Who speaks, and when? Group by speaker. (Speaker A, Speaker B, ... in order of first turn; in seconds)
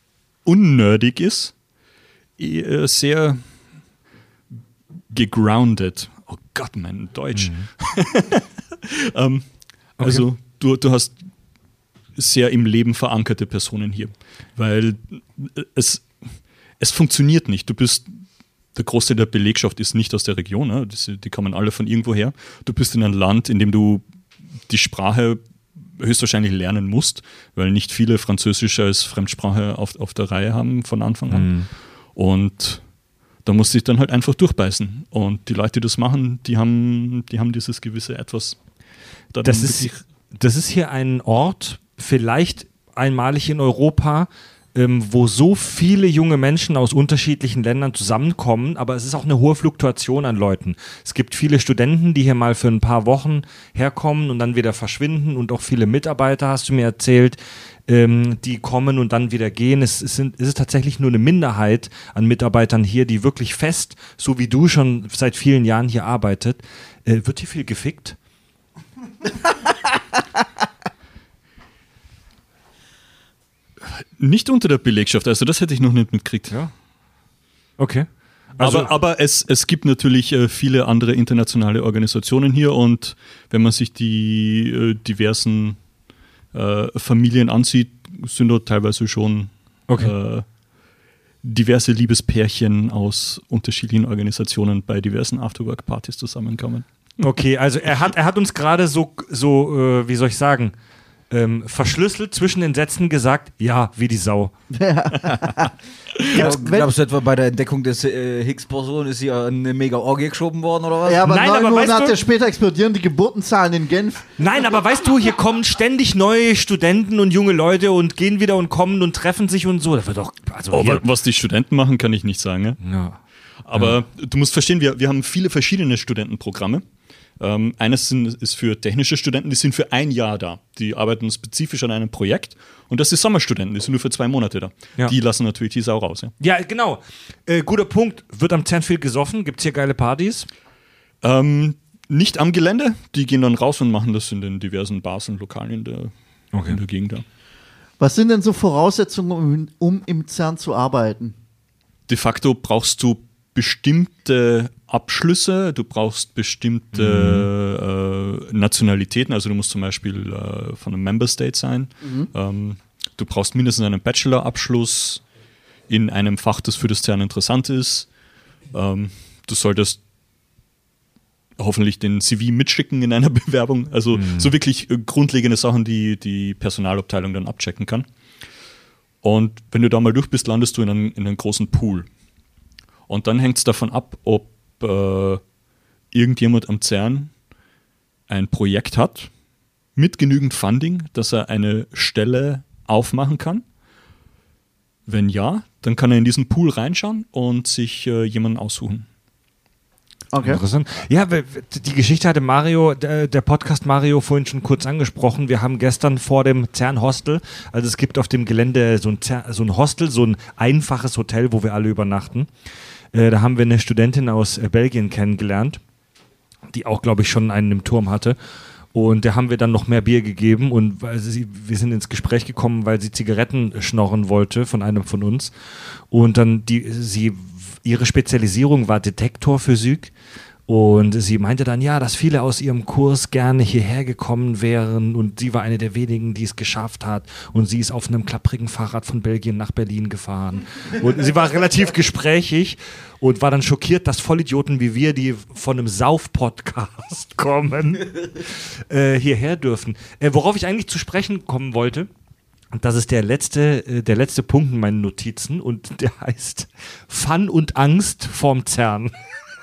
Speaker A: 0.4-1.5, 2.4-3.4, 5.1-11.2, 12.2-18.1, 18.7-24.0, 24.7-25.4, 25.9-31.5, 32.1-32.8, 33.4-38.6, 39.3-40.0, 74.2-76.6, 78.6-85.8, 86.5-90.5, 91.4-96.8, 120.7-122.8, 123.6-126.8, 127.4-136.3, 141.2-146.1, 146.6-147.2, 152.1-165.2, 165.9-168.1, 168.7-170.0, 171.6-178.1, 179.2-182.1, 183.1-185.4, 186.1-187.3, 188.3-189.3, 189.9-193.6, 195.1-199.1
Speaker B: 7.3-7.7, 10.0-10.2, 31.3-31.7, 39.4-68.2, 77.8-78.9, 97.2-100.7, 101.3-104.5, 111.2-112.2, 114.4-121.0, 122.8-123.2, 123.7-124.0, 136.4-140.5, 146.5-146.8, 156.9-157.5, 174.1-174.5, 200.4-212.5, 213.1-215.8, 216.7-218.4, 218.9-225.5, 226.1-230.1, 230.7-252.1, 252.7-259.1
Speaker C: 104.7-105.7, 106.3-106.9, 111.0-114.3, 148.0-151.3, 162.0-162.3, 200.3-200.6
Speaker D: 106.3-111.3